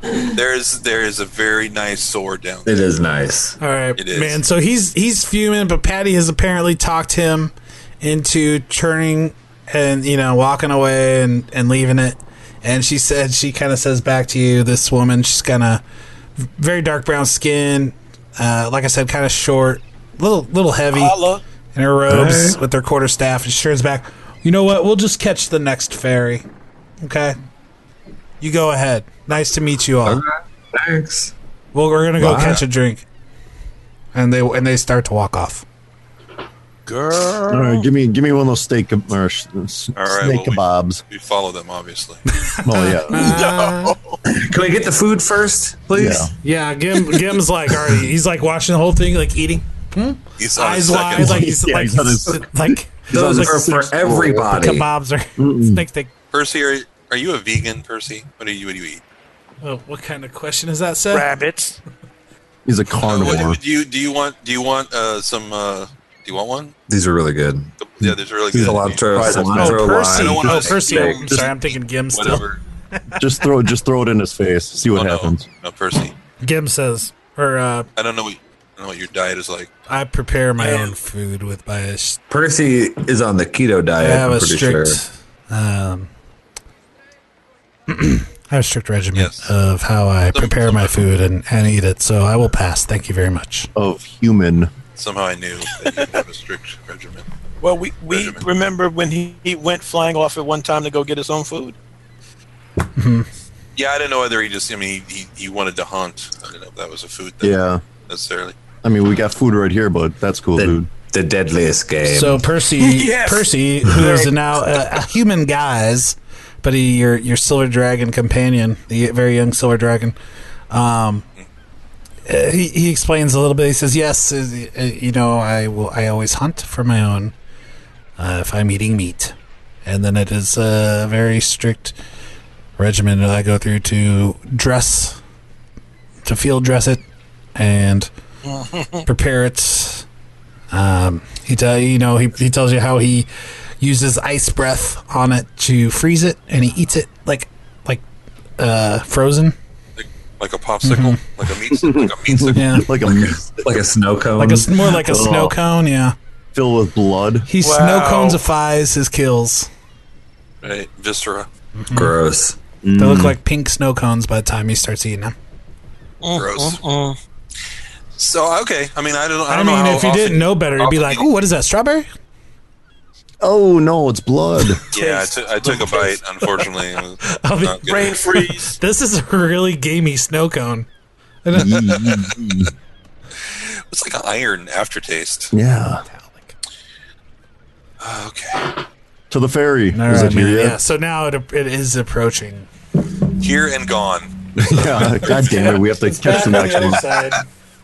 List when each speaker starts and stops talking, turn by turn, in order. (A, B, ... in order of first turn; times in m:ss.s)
0:00.2-0:02.7 A
0:02.6-0:03.6 B
0:03.6-0:15.8 C
0:04.0-0:04.4 A
0:16.6-0:21.2 C
0:20.9-0:21.4 D
0:21.8-0:26.5 C
0:22.1-0:22.6 B
0:27.0-0:27.4 C
0:28.4-0:30.2 C
0:30.0-0:31.3 B
0:31.7-0:33.0 C
0:32.2-0:32.6 B
0:34.2-0:35.6 C
0:36.9-0:37.8 D
0:37.5-0:41.0 E
0:40.0-0:42.2 A
0:42.3-0:44.0 C
0:42.6-0:43.4 E
0:43.2-0:44.2 D
0:44.2-0:46.3 B
0:45.9-0:46.3 E
0:46.4-0:53.7 C
0:50.4-0:51.5 A
0:51.1-0:54.7 E
0:53.1-0:54.9 B
0:54.4-0:56.1 C
0:55.4-0:55.8 E
0:56.3-0:59.0 A
0:59.6-1:01.3 C
1:01.1-1:01.8 D
1:02.7-1:03.6 E
1:03.0-1:06.7 A
1:06.9-1:07.7 B
1:07.8-1:12.6 A
1:08.5-1:11.2 B
1:09.1-1:09.8 E
1:09.6-1:12.4 C
1:13.0-1:13.2 C
1:13.2-1:15.4 E
1:15.0-1:16.1 A
1:16.4-1:17.9 C
1:18.0-1:19.7 A
1:19.9-1:22.2 C
1:20.6-1:21.0 D
1:22.3-1:25.0 B
1:24.0-1:26.1 C
1:27.9-1:33.7 C
1:29.2-1:29.5 A
1:30.3-1:31.0 A
1:33.8-1:34.7 E
1:35.0-1:37.3 A
1:37.6-1:41.8 D
1:38.1-1:38.4 A
1:43.0-1:43.3 C
1:43.8-1:48.6 A
1:47.4-1:47.8 E
1:48.8-1:50.9 E
1:50.6-1:52.4 B
1:52.1-2:00.2 C
1:52.8-1:54.3 D
2:00.7-2:01.2 C
2:02.3-2:07.3 C
2:08.2-2:09.3 C
2:09.8-2:12.0 C
2:12.8-2:15.2 C
2:16.2-2:17.0 C
2:17.6-2:18.1 C
2:18.4-2:19.0 D
2:19.1-2:20.1 C
2:20.7-2:23.3 C
2:23.8-2:28.0 C
2:28.6-2:29.6 C
2:30.0-2:32.7 A
2:30.8-2:31.2 C
2:31.7-2:33.8 E
2:32.5-2:32.9 C
2:33.0-2:34.8 B
2:34.4-2:36.2 C
2:35.0-2:35.6 E
2:36.5-2:37.5 E
2:37.5-2:39.7 C
2:37.6-2:38.4 D
2:40.6-2:41.5 A
2:41.8-2:42.1 C
2:41.9-2:42.6 B
2:42.8-2:43.4 E
2:43.0-2:45.4 C
2:46.2-2:47.2 D
2:46.4-2:46.8 A
2:48.2-2:51.3 A
2:49.5-2:52.1 C
2:53.4-2:54.8 E
2:54.9-2:56.6 C
2:54.9-2:58.2 A
2:57.2-3:00.9 C
2:57.8-2:58.7 D
3:01.4-3:01.9 C
3:01.5-3:02.7 E
3:01.8-3:02.4 A
3:03.6-3:05.5 A
3:05.5-3:06.0 E
3:06.1-3:06.5 C
3:08.0-3:08.8 A
3:09.3-3:10.8 E
3:09.9-3:12.7 C
3:13.4-3:14.3 A
3:14.6-3:17.0 E
3:15.3-3:17.4 C
3:16.5-3:16.7 D